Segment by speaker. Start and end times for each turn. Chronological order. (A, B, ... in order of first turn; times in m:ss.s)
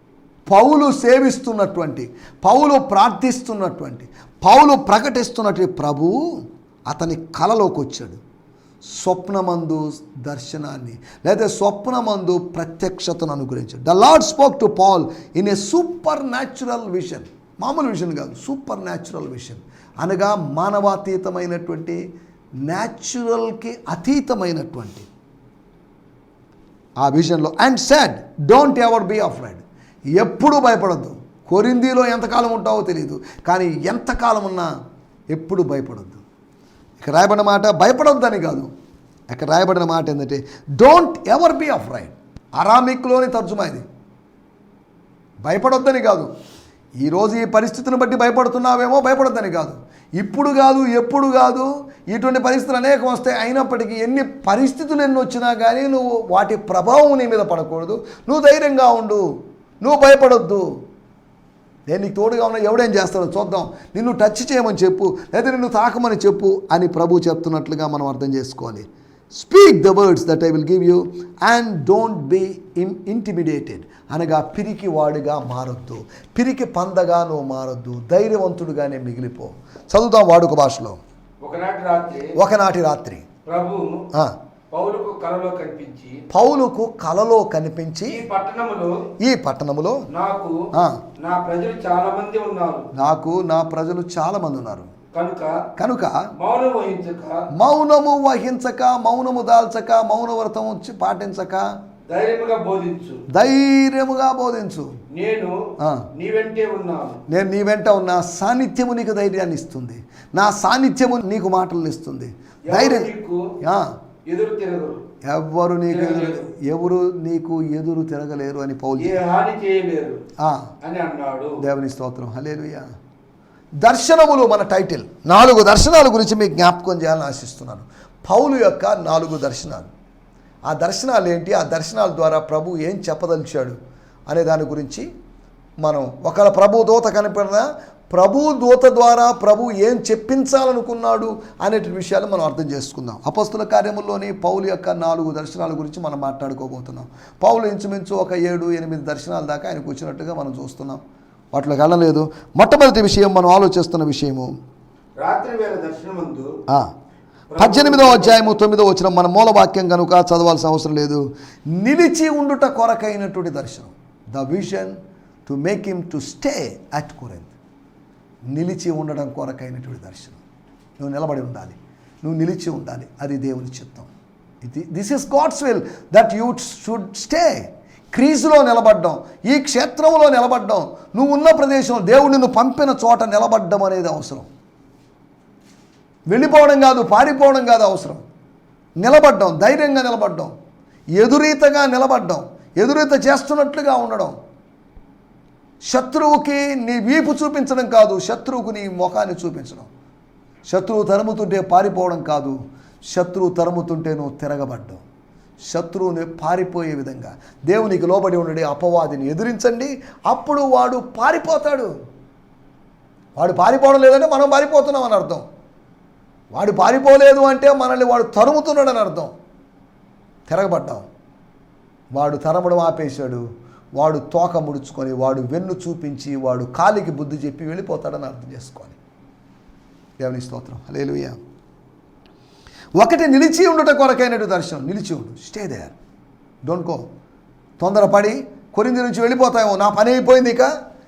0:00.4-0:08.2 A
0:08.9-0:22.0 A
0:22.6-0:25.1 A
0:27.0-0:34.7 A
0:35.3-0:36.2 A
0:37.0-0:38.7 A
0:39.3-0:43.8 A
0:45.4-0:46.3 A
0:47.0-1:00.8 A
1:01.9-1:21.0 A
1:21.4-1:22.4 B
1:22.3-1:23.3 A
1:23.4-1:24.0 B
1:24.7-1:26.2 B
1:26.3-1:28.2 A
1:28.1-1:29.1 B
1:29.2-1:30.0 A
1:30.1-1:30.7 B
1:30.7-1:31.0 A
1:31.2-1:32.9 B
1:32.9-1:34.9 A
1:35.1-1:35.6 B
1:35.8-1:36.2 A
1:36.4-1:37.5 B
1:37.5-1:41.7 A
1:42.1-1:43.2 B
1:43.3-1:45.0 A
1:45.1-1:47.2 B
1:45.8-1:46.0 A
1:47.3-1:53.9 A
1:52.7-1:53.5 B
1:54.3-1:55.0 B
1:55.2-1:59.2 A
1:55.9-1:56.5 B
1:59.0-2:00.2 B
2:00.4-2:00.7 A
2:00.8-2:01.6 B
2:01.6-2:02.9 A
2:03.8-2:09.9 A
2:10.7-2:13.8 A
2:14.3-2:15.1 A
2:15.8-2:34.5 A
2:35.2-2:36.5 B
2:37.5-2:38.6 B
2:37.6-2:47.5 A
2:48.5-2:50.4 A
2:51.0-2:54.1 A
2:54.6-3:04.5 A
3:06.3-3:08.2 A
3:09.0-3:10.5 A
3:11.2-3:14.3 A
3:15.8-3:19.9 A
3:20.7-3:22.6 A
3:23.1-3:25.0 A
3:25.7-3:31.9 A
3:33.4-3:35.4 A
3:36.5-3:39.3 A
3:40.5-3:41.1 A
3:42.1-3:43.4 A
3:44.0-3:49.0 A
3:50.2-3:51.4 A
3:53.0-3:55.9 A
3:56.6-3:57.1 A
3:57.8-4:00.7 A